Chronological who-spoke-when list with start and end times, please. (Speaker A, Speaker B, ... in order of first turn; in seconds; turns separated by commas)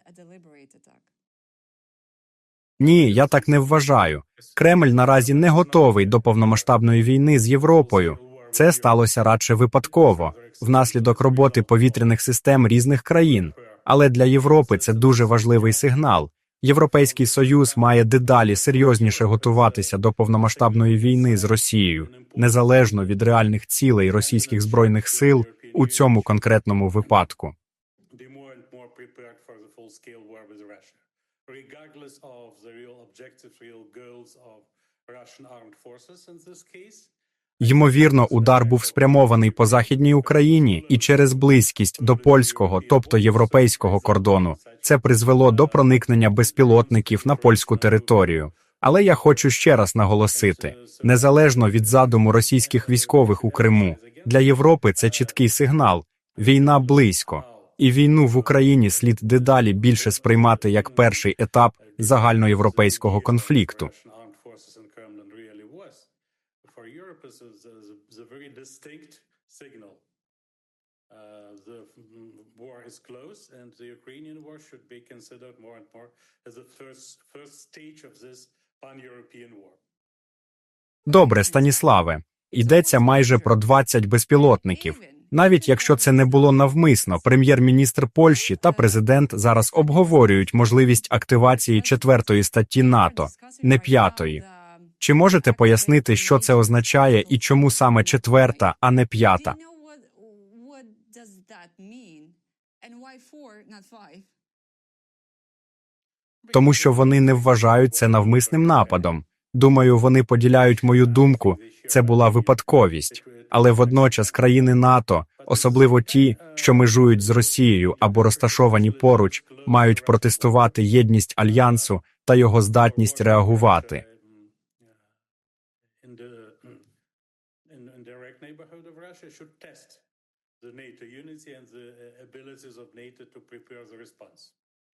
Speaker A: 0.3-0.8, Speaker B: 2.8-27.5, Speaker A: 4.6-6.7, Speaker A: 7.8-9.0, Speaker A: 9.8-12.1, Speaker A: 13.2-13.8, Speaker A: 14.4-15.9, Speaker A: 16.9-22.7, Speaker A: 24.1-26.4, Speaker A: 28.1-48.4, Speaker B: 37.6-63.9, Speaker A: 50.3-54.4, Speaker A: 55.0-55.3, Speaker A: 56.4-57.7, Speaker A: 58.2-61.2, Speaker A: 61.9-66.1, Speaker A: 66.6-70.0, Speaker A: 71.1-79.8, Speaker B: 81.1-94.4, Speaker B: 95.0-99.5, Speaker A: 99.8-100.5, Speaker A: 103.0-104.3, Speaker A: 106.5-109.1, Speaker B: 106.5-124.0, Speaker A: 110.8-112.7, Speaker A: 113.2-114.5, Speaker A: 115.4-120.7, Speaker A: 121.5-121.9, Speaker A: 122.8-124.3, Speaker A: 126.0-126.8, Speaker A: 127.7-130.0, Speaker A: 130.6-134.5